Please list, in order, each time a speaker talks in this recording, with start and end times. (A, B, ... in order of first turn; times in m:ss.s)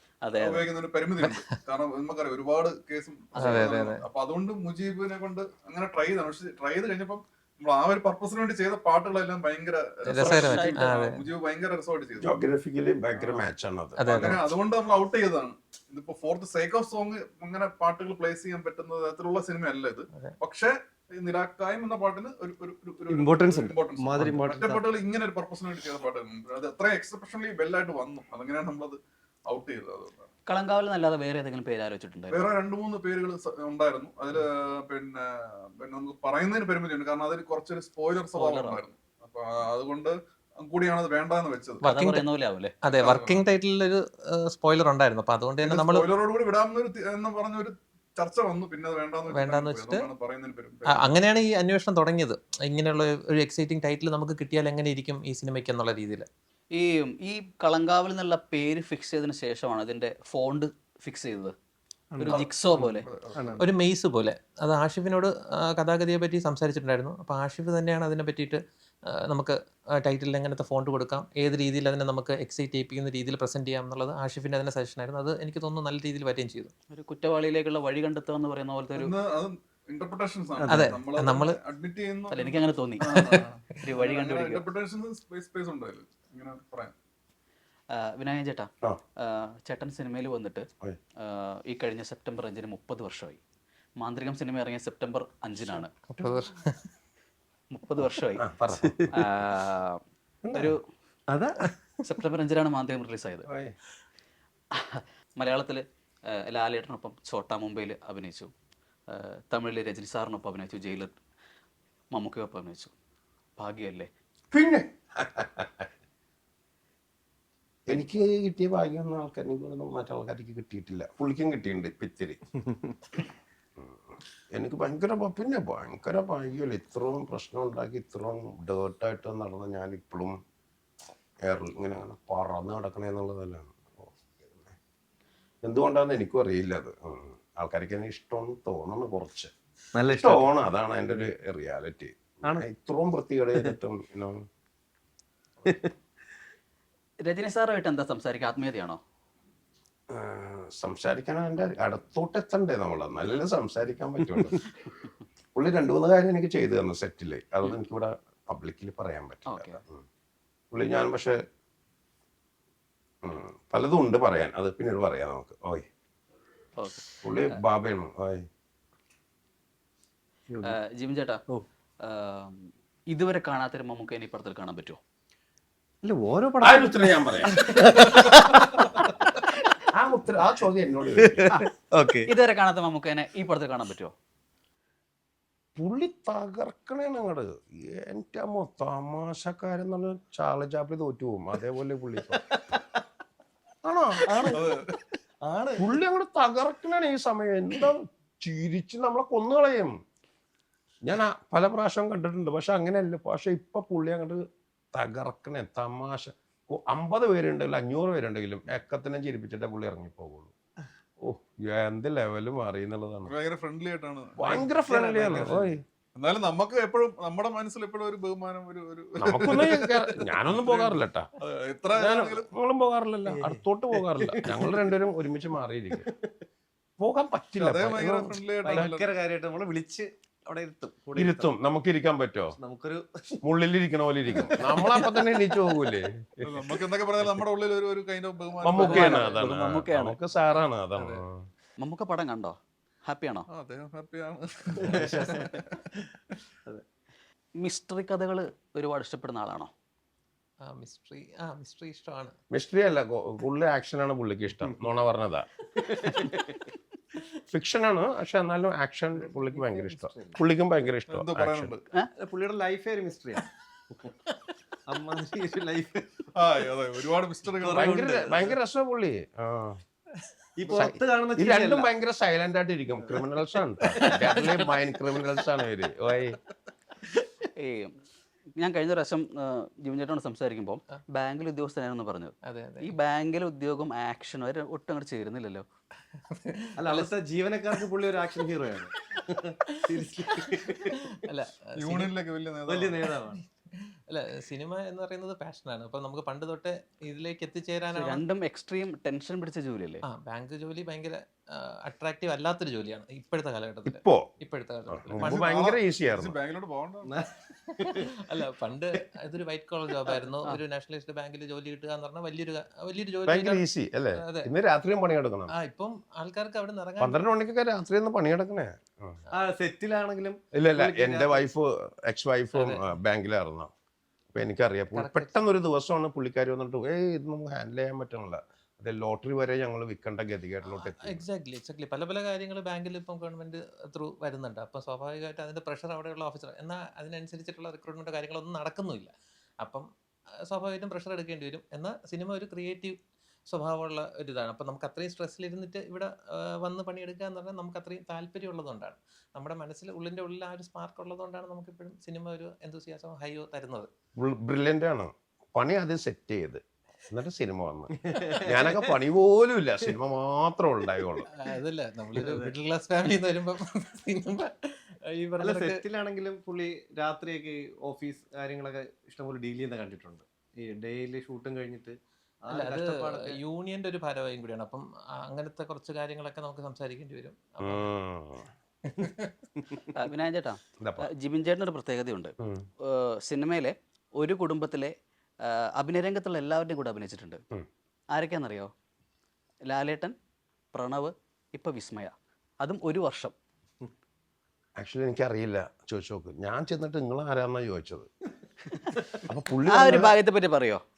0:00.2-0:00.7 A
0:00.4-0:12.3 B
0:03.4-0:03.7 A
0:03.4-0:04.0 C
0:10.1-0:11.2 C
0:10.2-0:10.8 A
0:12.2-0:14.4 D
0:13.2-0:13.5 B
0:14.0-0:14.4 C
0:14.1-0:30.3 B
0:23.1-0:24.8 E
0:30.5-0:32.5 A
0:32.3-0:41.8 B
0:38.3-0:38.8 A
0:41.8-0:42.3 C
0:41.8-0:42.7 A
0:42.8-0:46.1 C
0:42.9-0:43.4 B
0:45.6-0:51.1 B
0:49.3-0:50.1 C
0:50.9-0:56.3 C
0:56.7-1:01.5 A
1:02.1-1:02.8 E
1:02.2-1:03.1 A
1:02.2-1:03.6 B
1:03.4-1:03.7 E
1:03.6-1:08.6 C
1:09.3-1:16.7 C
1:16.9-1:19.1 A
1:19.0-1:26.9 B
1:20.6-1:20.9 E
1:20.7-1:21.6 C
1:22.3-1:23.3 A
1:23.1-1:23.5 C
1:23.8-1:24.6 A
1:27.9-1:30.7 A
1:31.2-1:33.4 A
1:34.0-1:35.9 A
1:36.1-1:36.9 C
1:37.7-1:38.4 A
1:38.4-1:39.1 D
1:38.8-1:39.3 E
1:39.1-1:40.0 A
1:40.5-1:40.8 A
1:41.3-1:41.7 E
1:42.0-1:43.5 A
1:43.5-1:43.8 D
1:44.7-1:48.5 A
1:49.1-1:51.1 A
1:52.1-1:52.9 A
1:53.6-1:54.1 A
1:54.5-1:55.9 D
1:57.9-2:02.4 D
2:02.6-2:03.0 E
2:03.8-2:10.4 D
2:11.4-2:14.8 D
2:15.6-2:19.5 D
2:20.0-2:20.5 E
2:20.1-2:24.4 D
2:25.7-2:25.9 E
2:27.2-2:29.0 A
2:30.1-2:34.6 D
2:35.6-2:40.0 D
2:39.5-2:39.8 A
2:40.7-2:41.4 D
2:43.2-2:45.9 D
2:46.8-2:47.6 A
2:47.2-2:48.5 D
2:50.5-2:50.8 E
2:50.6-2:51.4 A
2:52.0-2:55.0 A
2:56.0-2:59.9 E
2:56.6-2:57.7 D
2:59.9-3:01.5 D
3:01.2-3:02.3 E
3:02.3-3:04.1 A
3:05.8-3:12.4 D
3:12.3-3:13.0 E
3:13.8-3:14.6 D
3:14.3-3:14.9 E
3:14.5-3:15.0 B
3:15.4-3:15.9 E
3:15.8-3:19.9 D
3:21.0-3:24.4 D
3:24.9-3:30.5 D
3:31.2-3:33.3 D
3:33.3-3:35.6 B
3:34.4-3:35.8 D
3:34.9-3:35.7 E
3:36.2-3:42.5 B
3:39.2-3:41.3 D
3:42.0-3:46.1 D
3:43.3-3:45.0 E
3:45.9-3:46.3 E
3:47.0-3:48.9 D
3:47.6-3:49.1 B
3:48.6-3:51.5 E
3:51.2-3:52.6 D
3:52.6-3:53.4 E
3:53.4-3:56.7 D
3:54.3-3:55.7 E
3:56.4-3:59.4 B
3:58.6-4:01.5 D
3:58.8-4:00.2 A
4:01.0-4:01.2 C
4:01.8-4:03.5 A
4:03.5-4:05.8 B
4:04.8-4:06.1 E
4:07.6-4:09.7 A
4:10.6-4:12.4 C
4:12.5-4:15.5 D
4:15.8-4:16.6 E
4:17.5-4:21.7 D
4:19.2-4:20.4 E
4:21.1-4:21.8 B
4:22.2-4:24.2 E
4:24.9-4:26.3 E
4:26.4-4:28.4 B
4:27.6-4:28.6 E
4:27.7-4:29.8 D
4:30.2-4:30.9 C
4:30.6-4:31.9 E
4:30.7-4:36.4 D
4:33.9-4:34.8 C
4:37.6-4:38.0 A
4:38.6-4:45.6 A
4:42.5-4:43.0 C
4:46.2-4:47.1 C
4:46.8-4:51.1 E
4:49.6-4:52.1 C
4:51.8-4:53.1 B
4:52.7-4:53.4 E
4:53.4-4:58.2 C
4:57.9-5:00.0 A
5:00.0-5:05.5 C
5:03.9-5:04.3 D
5:04.9-5:06.4 D
5:05.2-5:07.2 B
5:07.0-5:08.4 E
5:07.7-5:13.6 C
5:13.3-5:15.5 D
5:14.2-5:14.5 C
5:15.5-5:17.2 C
5:17.0-5:19.2 D
5:19.3-5:21.4 E
5:20.5-5:23.7 D
5:22.6-5:22.9 C
5:24.3-5:31.2 D
5:25.0-5:25.3 C
5:30.7-5:39.9 C
5:40.5-5:53.9 C
5:54.2-6:01.3 D
5:58.0-5:59.0 E
6:01.3-6:05.8 C
6:02.1-6:02.5 E
6:05.4-6:13.4 E
6:12.5-6:17.9 C
6:17.6-6:18.5 D
6:18.8-6:19.4 C
6:20.0-6:27.4 A
6:20.8-6:21.1 D
6:22.4-6:22.7 D
6:28.1-6:28.7 A
6:29.7-6:30.2 A
6:30.7-6:33.3 A
6:34.8-6:38.1 D
6:39.3-6:40.1 D
6:39.7-6:40.8 A